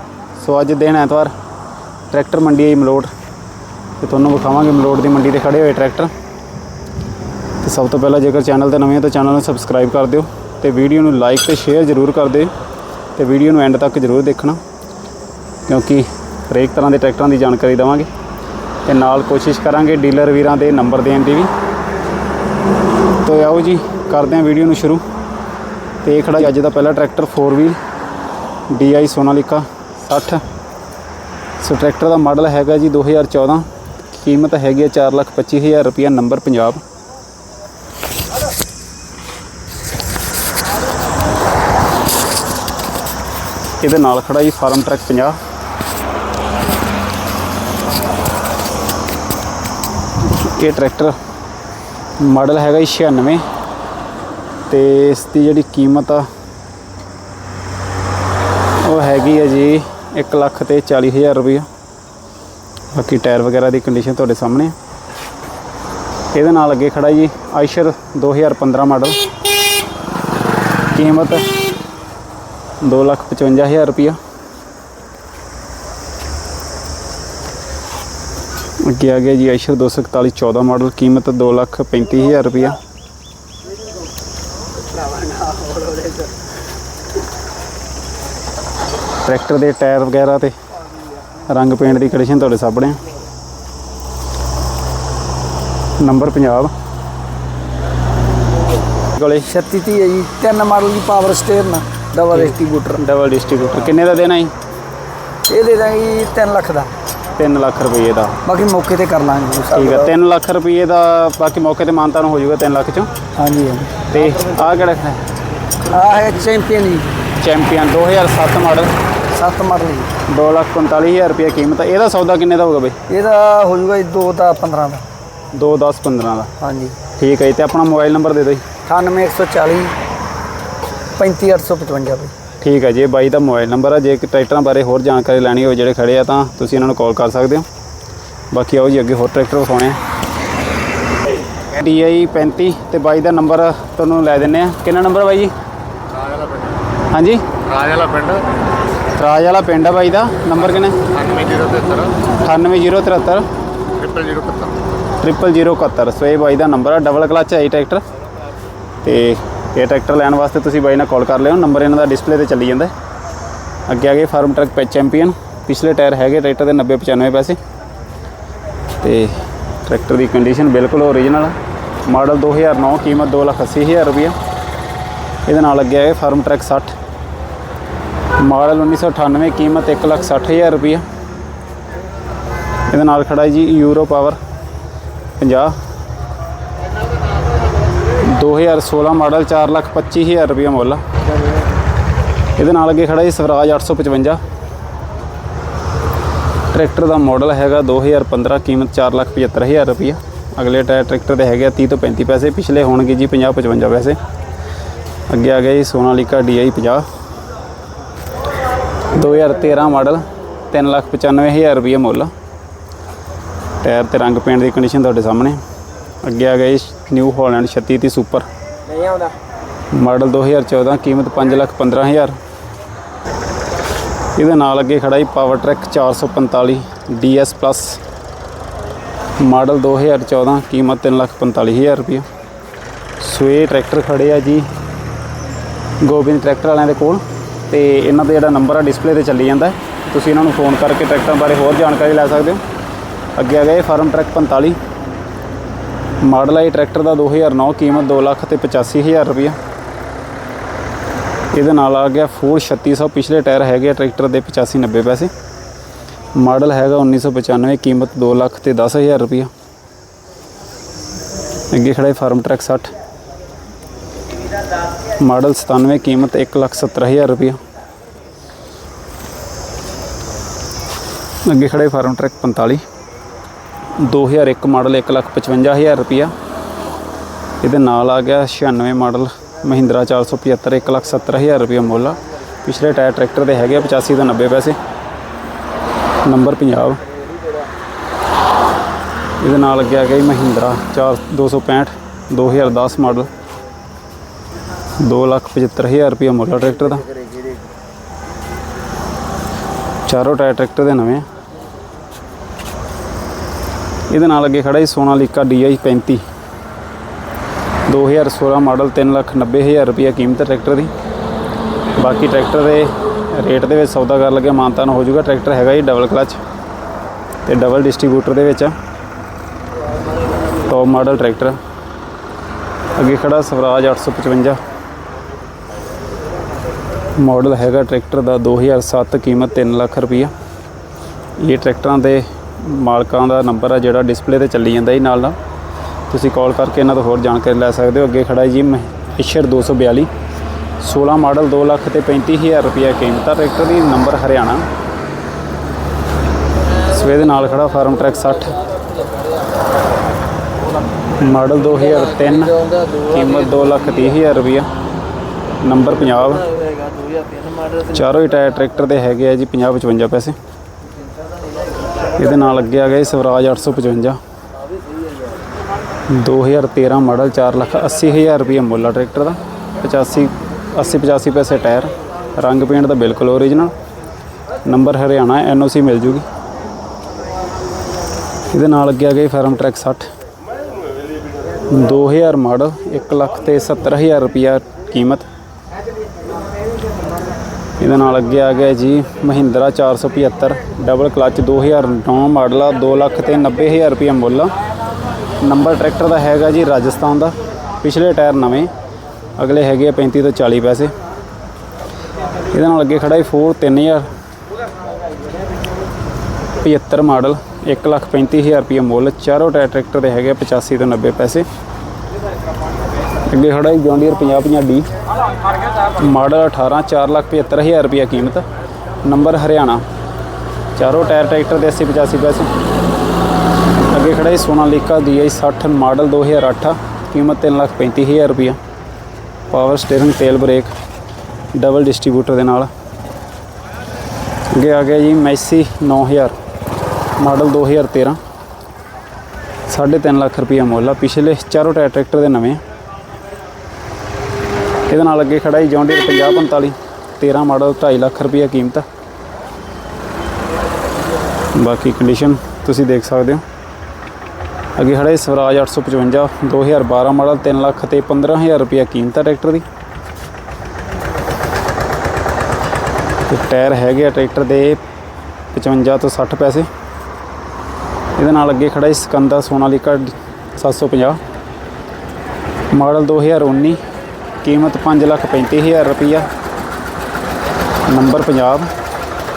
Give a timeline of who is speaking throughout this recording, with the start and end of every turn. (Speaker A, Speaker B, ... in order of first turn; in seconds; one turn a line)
Speaker A: 0.4-1.3
Speaker A: 2.1-3.1
Speaker A: 4.0-6.1
Speaker A: 7.6-12.5
Speaker A: 13.2-14.6
Speaker A: 15.7-18.1
Speaker A: 18.9-21.5
Speaker A: 23.2-25.0
Speaker A: 26.0-27.8
Speaker A: 28.7-30.4
Speaker A: 31.6-36.8
Speaker A: 43.8-45.4
Speaker A: 50.3-51.2
Speaker A: 52.2-53.4
Speaker A: 54.7-56.3
Speaker A: 58.8-61.7
Speaker A: 62.9-64.8
Speaker A: 66.3-69.2
Speaker A: 70.9-71.5
Speaker A: 72.8-74.2
Speaker A: 78.8-82.8
Speaker A: 89.2-90.5
Speaker A: 91.5-93.0
Speaker A: 96.0-96.7
Speaker A: 99.1-99.5
Speaker B: 99.5-103.0
Speaker A: 102.3-104.5
Speaker B: 105.5-106.9
Speaker A: 107.4-108.4
Speaker B: 108.4-110.1
Speaker A: 109.7-113.1
Speaker B: 113.4-114.0
Speaker A: 114.1-115.2
Speaker B: 115.9-117.1
Speaker A: 117.4-118.9
Speaker B: 119.3-120.1
Speaker A: 120.3-123.0
Speaker B: 123.1-125.0
Speaker A: 125.5-126.5
Speaker B: 126.6-127.0
Speaker A: 127.1-128.6
Speaker B: 128.9-130.0
Speaker B: 131.2-132.3
Speaker A: 132.6-137.7
Speaker A: 138.5-140.0
Speaker A: 141.7-145.5
Speaker A: 147.1-147.6
Speaker C: 147.7-148.4
Speaker A: 149.1-151.1
Speaker C: 151.2-152.1
Speaker A: 152.3-153.5
Speaker C: 154.0-154.7
Speaker A: 155.2-158.0
Speaker A: 159.0-162.9
Speaker A: 163.9-167.6
Speaker A: 169.0-171.6
Speaker A: 172.1-174.4
Speaker A: 175.5-176.9
Speaker A: 178.4-181.1
Speaker A: 182.9-184.4
Speaker A: 185.4-185.7
Speaker A: 188.2-191.0
Speaker A: 192.6-194.4
Speaker A: 196.7-204.2
Speaker A: 205.3-207.1
Speaker A: 209.1-212.3
Speaker A: 213.8-215.6
Speaker A: 216.2-218.5
Speaker A: 219.9-222.4
Speaker A: 224.4-228.0
Speaker A: 229.4-232.3
Speaker A: 233.2-234.7
Speaker A: 236.0-242.6
Speaker A: 243.4-244.8
Speaker A: 246.2-249.6
Speaker A: 251.5-255.3
Speaker A: 256.4-259.5
Speaker A: 261.7-262.9
Speaker A: 265.2-267.6
Speaker A: 271.4-272.8
Speaker A: 274.0-276.3
Speaker A: 277.6-284.8
Speaker A: 286.2-287.0
Speaker A: 289.4-293.3
Speaker A: 295.0-297.1
Speaker A: 300.1-301.3
Speaker A: 304.1-306.2
Speaker A: 307.9-310.9
Speaker A: 312.0-316.4
Speaker A: 317.5-318.8
Speaker A: 320.6-321.6
Speaker A: 323.0-324.6
Speaker A: 327.2-330.3
Speaker A: 331.4-335.4
Speaker A: 336.1-340.1
Speaker A: 340.8-344.7
Speaker A: 346.9-348.5
Speaker A: 351.2-354.7
Speaker A: 355.6-356.5
Speaker A: 357.8-360.4
Speaker A: 362.2-364.2
Speaker A: 366.1-373.7
Speaker A: 374.6-376.2
Speaker A: 378.5-380.1
Speaker A: 381.7-385.2
Speaker A: 387.8-394.5
Speaker A: 395.4-398.7
Speaker A: 399.4-400.9
Speaker A: 402.5-404.1
Speaker A: 406.6-411.5
Speaker A: 413.3-414.9
Speaker A: 416.0-418.4
Speaker A: 419.0-419.8
Speaker A: 420.8-422.5
Speaker A: 423.9-428.6
Speaker A: 429.5-430.7
Speaker A: 431.6-432.7
Speaker A: 434.5-436.4
Speaker A: 437.2-438.2
Speaker A: 439.7-442.6
Speaker A: 444.9-448.9
Speaker A: 451.6-453.4
Speaker A: 454.8-459.6
Speaker A: 463.3-464.8
Speaker A: 465.5-466.7
Speaker A: 468.2-471.2
Speaker A: 472.7-473.8
Speaker A: 474.4-476.3
Speaker A: 477.9-478.7